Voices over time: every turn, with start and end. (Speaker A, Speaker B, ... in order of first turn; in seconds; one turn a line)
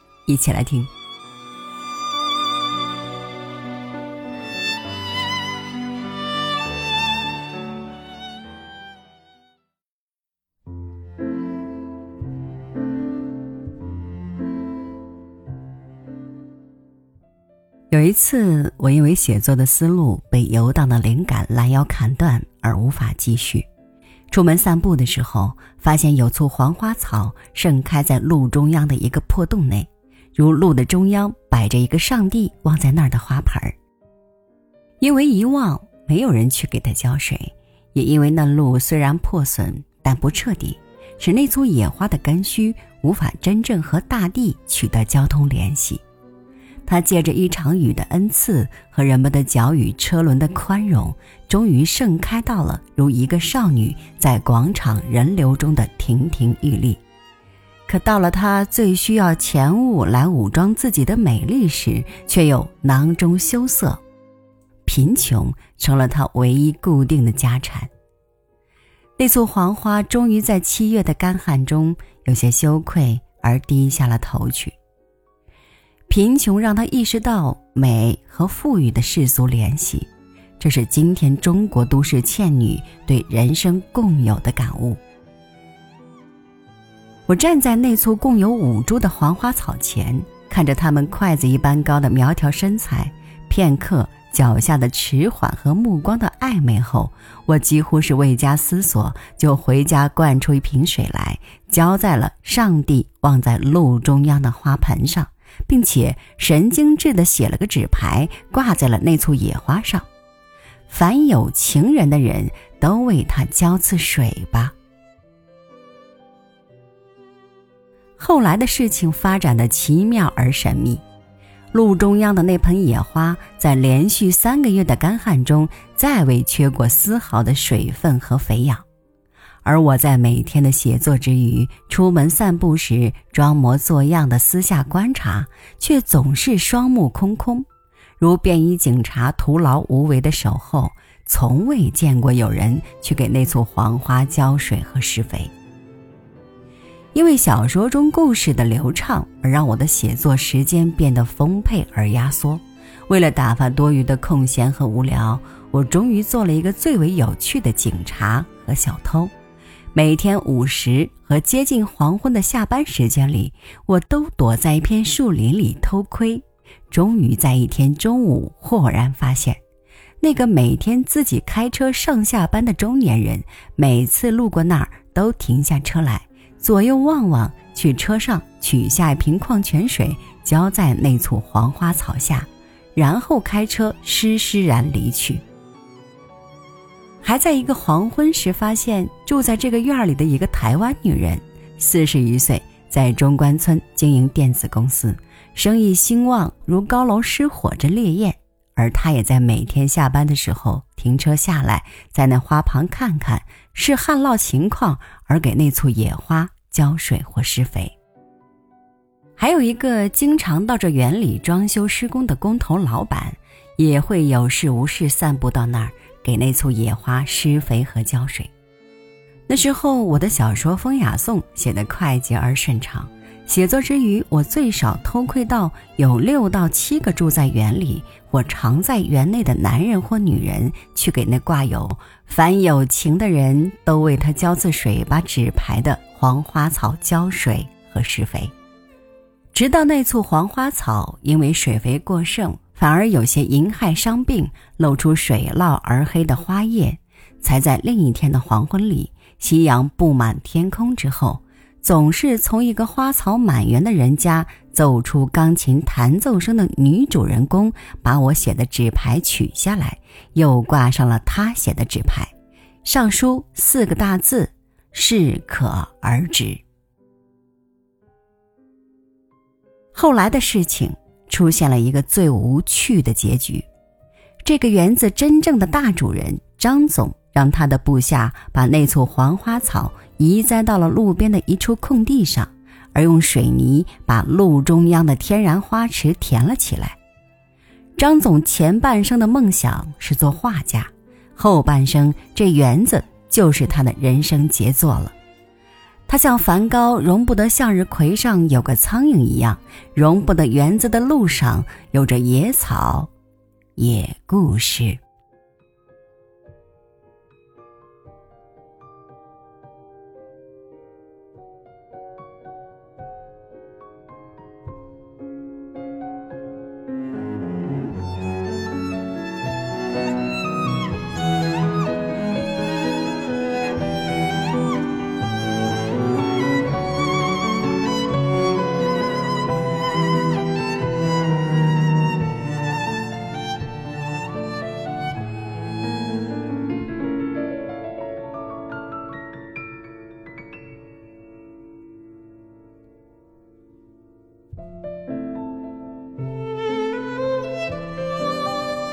Speaker A: 0.2-0.9
Speaker A: 17.9-23.6
Speaker A: 24.3-33.8
Speaker A: 35.0-46.0
Speaker A: 46.9-57.0
Speaker A: 57.9-64.0
Speaker A: 64.8-67.9
Speaker A: 69.2-74.8
Speaker A: 76.1-80.1
Speaker A: 80.6-85.0
Speaker A: 87.3-110.1
Speaker A: 110.9-114.7
Speaker A: 118.2-121.0
Speaker A: 121.7-128.8
Speaker A: 129.6-137.7
Speaker A: 138.2-145.5
Speaker A: 147.1-159.3
Speaker A: 159.9-169.6
Speaker A: 170.2-185.4
Speaker A: 187.2-207.9
Speaker A: 209.4-218.5
Speaker A: 219.5-238.5
Speaker A: 239.5-262.3
Speaker A: 262.8-266.6
Speaker A: 269.9-273.6
Speaker A: 274.4-287.0
Speaker A: 288.0-295.1
Speaker A: 296.1-303.1
Speaker A: 303.8-305.0